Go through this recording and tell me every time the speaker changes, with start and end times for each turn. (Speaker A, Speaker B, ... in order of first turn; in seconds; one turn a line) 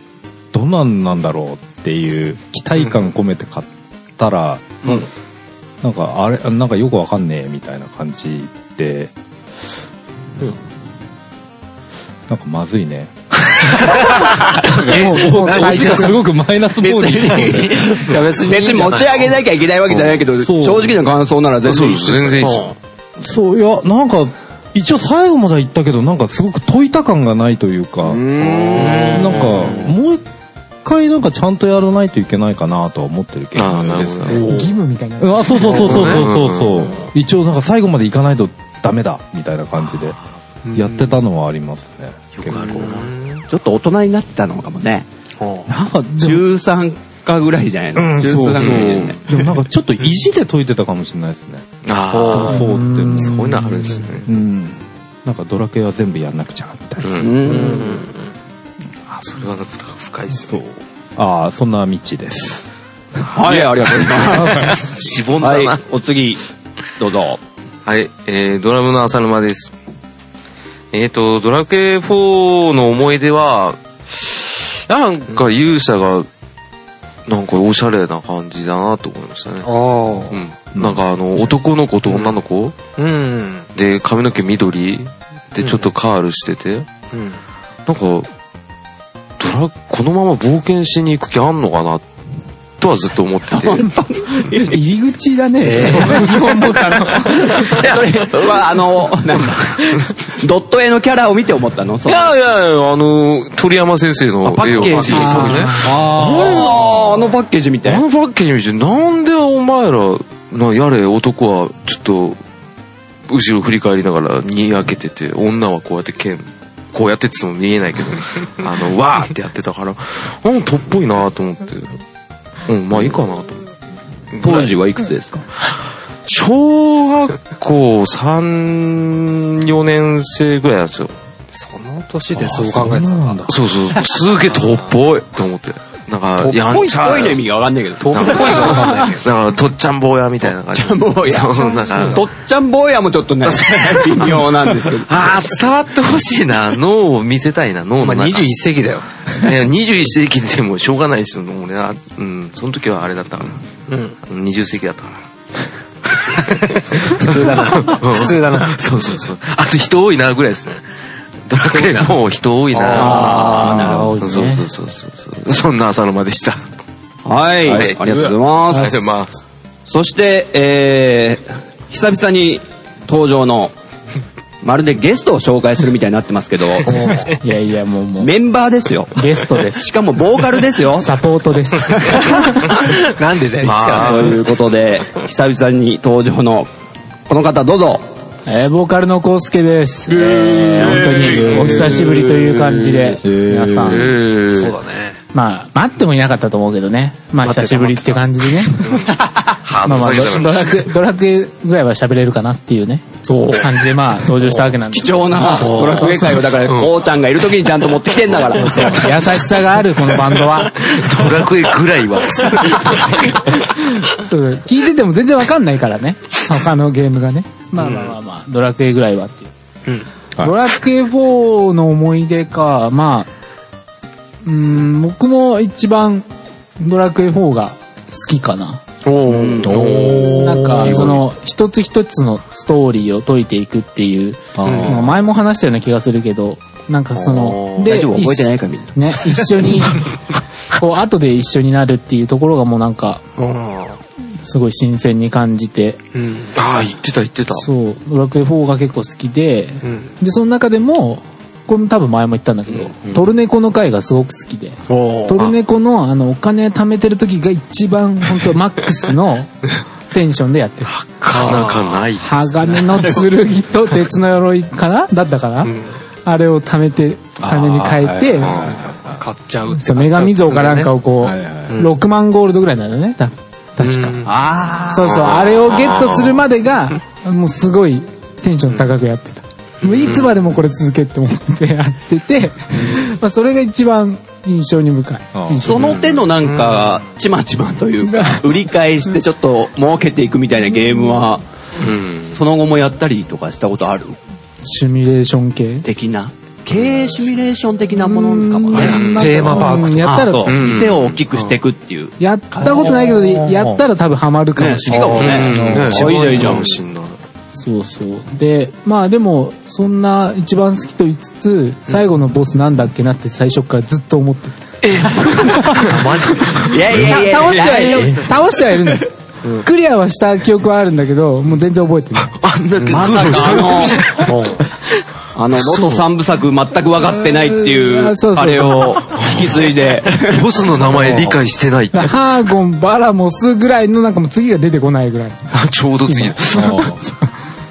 Speaker A: 0.5-5.0
Speaker A: 5.8-9.1
Speaker A: 12.3-13.1
Speaker B: 13.8-16.1
Speaker C: 14.7-16.2
Speaker A: 14.9-18.2
Speaker D: 16.8-22.5
Speaker B: 17.4-19.3
Speaker E: 19.9-20.2
Speaker A: 20.4-21.0
Speaker E: 21.6-22.7
Speaker B: 22.4-22.7
Speaker A: 23.2-30.2
Speaker B: 28.1-29.7
Speaker E: 28.2-29.9
Speaker A: 30.8-40.1
Speaker E: 33.5-34.5
Speaker C: 34.4-35.8
Speaker B: 35.7-36.2
Speaker E: 35.7-37.0
Speaker E: 39.9-40.2
Speaker B: 40.6-41.1
Speaker A: 40.7-42.8
Speaker E: 42.4-43.3
Speaker B: 42.5-43.4
Speaker D: 43.5-45.1
Speaker B: 45.4-45.7
Speaker A: 45.6-46.5
Speaker D: 46.2-49.2
Speaker A: 47.9-51.6
Speaker E: 48.5-49.4
Speaker E: 51.8-54.3
Speaker B: 52.1-52.6
Speaker A: 52.3-53.7
Speaker C: 52.5-54.0
Speaker A: 54.2-57.1
Speaker E: 57.0-57.5
Speaker D: 57.2-58.0
Speaker B: 57.4-58.3
Speaker E: 59.1-60.6
Speaker A: 60.5-62.6
Speaker A: 63.2-64.8
Speaker D: 63.3-66.4
Speaker E: 64.3-65.8
Speaker D: 67.0-67.4
Speaker E: 67.8-69.7
Speaker E: 70.9-76.3
Speaker E: 77.2-79.7
Speaker B: 79.6-80.4
Speaker E: 80.3-82.8
Speaker A: 80.7-81.0
Speaker B: 82.1-82.4
Speaker B: 83.0-83.7
Speaker E: 83.7-86.9
Speaker B: 85.6-85.9
Speaker B: 87.1-87.4
Speaker E: 87.9-88.3
Speaker E: 89.4-92.0
Speaker E: 92.8-93.9
Speaker D: 93.5-94.8
Speaker C: 94.4-97.9
Speaker B: 95.6-96.3
Speaker D: 95.8-102.3
Speaker E: 102.0-105.8
Speaker D: 104.4-108.0
Speaker B: 104.9-105.7
Speaker C: 105.1-105.8
Speaker A: 105.7-106.8
Speaker E: 106.3-106.9
Speaker E: 107.8-112.4
Speaker E: 113.3-122.0
Speaker E: 122.7-123.6
Speaker E: 124.3-124.7
Speaker D: 124.4-125.4
Speaker E: 126.2-131.1
Speaker B: 131.5-133.5
Speaker A: 132.3-133.5
Speaker E: 133.5-137.4
Speaker B: 136.5-136.8
Speaker D: 136.5-138.8
Speaker B: 138.0-139.3
Speaker E: 138.1-142.2
Speaker D: 140.7-145.1
Speaker E: 143.4-148.5
Speaker B: 148.0-149.4
Speaker E: 149.4-153.6
Speaker B: 153.9-154.2
Speaker E: 154.2-155.2
Speaker E: 156.1-160.8
Speaker B: 156.7-158.7
Speaker E: 161.5-166.6
Speaker B: 161.7-162.1
Speaker B: 162.7-163.7
Speaker D: 162.9-164.1
Speaker C: 162.9-164.7
Speaker A: 163.7-164.1
Speaker D: 167.2-169.2
Speaker E: 167.7-169.4
Speaker B: 168.0-168.3
Speaker D: 169.9-173.7
Speaker D: 174.6-177.1
Speaker B: 176.8-177.3
Speaker C: 177.2-178.3
Speaker D: 178.2-181.1
Speaker C: 179.1-179.9
Speaker C: 181.0-182.8
Speaker D: 182.0-182.2
Speaker B: 182.8-184.3
Speaker E: 183.6-184.4
Speaker D: 183.8-186.7
Speaker D: 187.3-188.1
Speaker C: 188.4-194.1
Speaker D: 190.2-190.6
Speaker A: 191.2-192.2
Speaker A: 193.2-194.2
Speaker E: 193.8-194.8
Speaker B: 194.5-195.2
Speaker C: 195.3-199.1
Speaker B: 197.4-199.1
Speaker E: 198.8-199.1
Speaker E: 199.6-200.9
Speaker C: 199.8-206.5
Speaker B: 203.2-203.8
Speaker B: 204.3-204.6
Speaker D: 204.9-209.2
Speaker B: 205.6-206.2
Speaker C: 208.6-210.9
Speaker E: 210.8-213.1
Speaker C: 213.5-219.5
Speaker B: 217.8-218.1
Speaker C: 220.4-223.3
Speaker C: 224.4-226.2
Speaker C: 226.8-228.8
Speaker B: 229.0-230.2
Speaker D: 229.2-229.8
Speaker A: 229.6-231.2
Speaker E: 229.7-230.2
Speaker C: 230.2-240.1
Speaker E: 230.8-231.1
Speaker A: 234.5-235.1
Speaker B: 234.6-235.0
Speaker E: 237.3-237.9
Speaker D: 237.8-238.9
Speaker C: 240.7-243.2
Speaker B: 243.4-244.0
Speaker C: 244.4-246.0
Speaker B: 246.1-246.8
Speaker E: 246.5-247.7
Speaker C: 247.5-259.5
Speaker B: 249.8-250.1
Speaker B: 254.9-255.4
Speaker C: 260.1-260.9
Speaker E: 260.9-262.3
Speaker B: 261.3-262.0
Speaker C: 262.2-268.6
Speaker B: 265.6-265.9
Speaker A: 267.4-269.2
Speaker E: 268.4-268.8
Speaker B: 268.6-270.9
Speaker C: 269.8-274.3
Speaker A: 271.2-271.7
Speaker B: 273.8-274.3
Speaker D: 274.2-275.2
Speaker C: 274.9-286.0
Speaker E: 275.0-276.4
Speaker B: 279.8-280.3
Speaker A: 285.3-285.8
Speaker D: 285.6-291.4
Speaker B: 286.4-286.8
Speaker C: 288.0-288.7
Speaker E: 291.8-292.4
Speaker D: 292.3-294.2
Speaker C: 294.6-295.9
Speaker D: 295.8-303.1
Speaker E: 296.7-297.2
Speaker C: 298.0-300.6
Speaker B: 298.7-300.4
Speaker E: 298.8-299.4
Speaker E: 300.4-301.2
Speaker C: 302.2-305.4
Speaker A: 302.6-303.8
Speaker D: 304.6-306.8
Speaker A: 304.9-306.6
Speaker E: 305.1-307.1
Speaker C: 307.5-314.6
Speaker B: 314.8-316.8
Speaker E: 315.7-316.1
Speaker C: 316.4-319.1
Speaker D: 316.6-318.5
Speaker C: 319.6-322.3
Speaker E: 322.3-324.6
Speaker B: 322.8-323.4
Speaker D: 322.9-324.1
Speaker B: 324.1-324.6
Speaker D: 325.3-330.6
Speaker E: 325.6-326.0
Speaker C: 327.0-329.1
Speaker E: 329.2-332.2
Speaker C: 331.9-335.5
Speaker E: 335.5-336.8
Speaker C: 336.1-337.3
Speaker A: 336.5-337.0